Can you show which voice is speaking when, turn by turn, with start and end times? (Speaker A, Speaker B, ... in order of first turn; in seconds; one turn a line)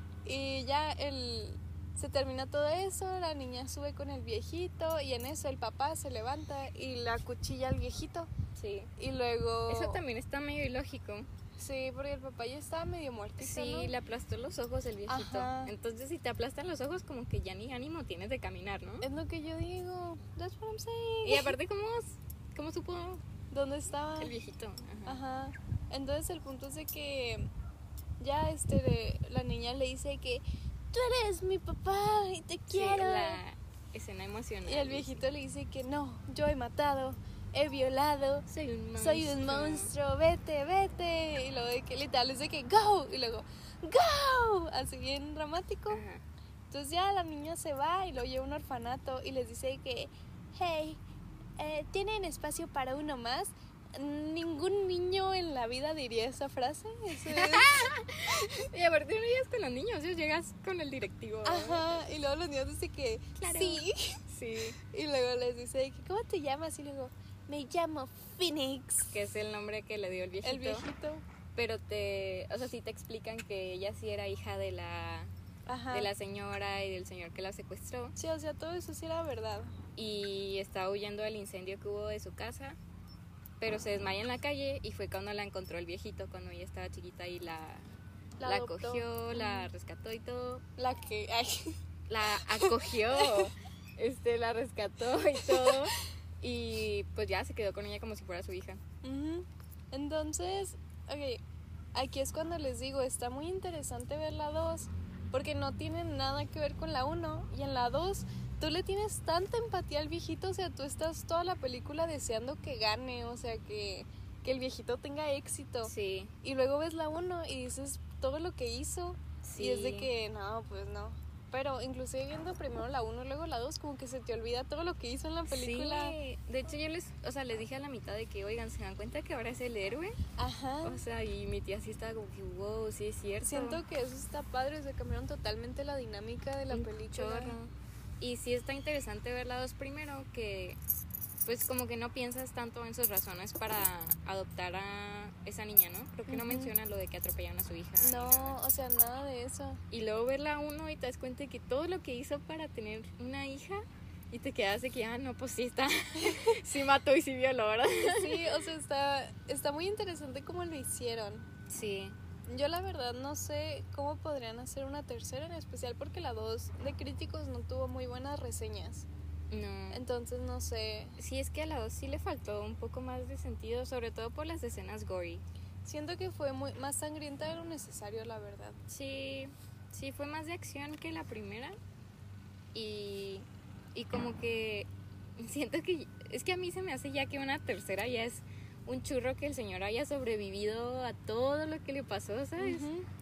Speaker A: 0.2-8.3
Speaker B: 8.6-8.9
Speaker A: 9.0-10.0
Speaker B: 9.7-11.3
Speaker A: 11.6-13.9
Speaker B: 13.4-19.1
Speaker A: 15.1-15.7
Speaker A: 19.0-21.6
Speaker B: 21.2-23.2
Speaker A: 23.5-24.3
Speaker B: 24.2-25.2
Speaker A: 25.1-27.5
Speaker A: 28.2-33.4
Speaker B: 32.7-35.2
Speaker A: 34.6-46.0
Speaker B: 38.5-39.9
Speaker B: 45.9-46.2
Speaker A: 46.7-51.0
Speaker A: 51.6-58.7
Speaker B: 57.2-62.0
Speaker A: 61.5-64.2
Speaker B: 63.4-64.8
Speaker A: 64.9-69.2
Speaker B: 69.1-70.8
Speaker A: 70.4-71.2
Speaker B: 71.5-75.3
Speaker A: 75.7-76.1
Speaker B: 75.9-78.2
Speaker A: 78.2-79.8
Speaker B: 80.0-82.8
Speaker B: 83.6-87.9
Speaker A: 88.4-89.7
Speaker B: 88.5-90.6
Speaker A: 90.8-91.8
Speaker B: 92.1-98.8
Speaker A: 92.4-93.5
Speaker A: 95.4-95.9
Speaker A: 99.0-101.4
Speaker A: 101.9-115.9
Speaker B: 115.8-116.3
Speaker A: 116.4-126.2
Speaker B: 119.4-120.1
Speaker B: 125.5-130.2
Speaker A: 130.4-131.0
Speaker B: 130.8-133.8
Speaker A: 133.4-137.6
Speaker B: 136.7-140.8
Speaker B: 141.5-148.6
Speaker A: 146.3-146.7
Speaker A: 148.0-149.8
Speaker B: 149.9-158.6
Speaker A: 158.1-161.5
Speaker B: 161.7-162.2
Speaker A: 162.5-169.1
Speaker B: 169.5-170.0
Speaker A: 169.9-171.2
Speaker B: 171.2-175.4
Speaker A: 175.8-178.8
Speaker B: 178.9-181.8
Speaker B: 182.8-192.9
Speaker A: 192.6-193.1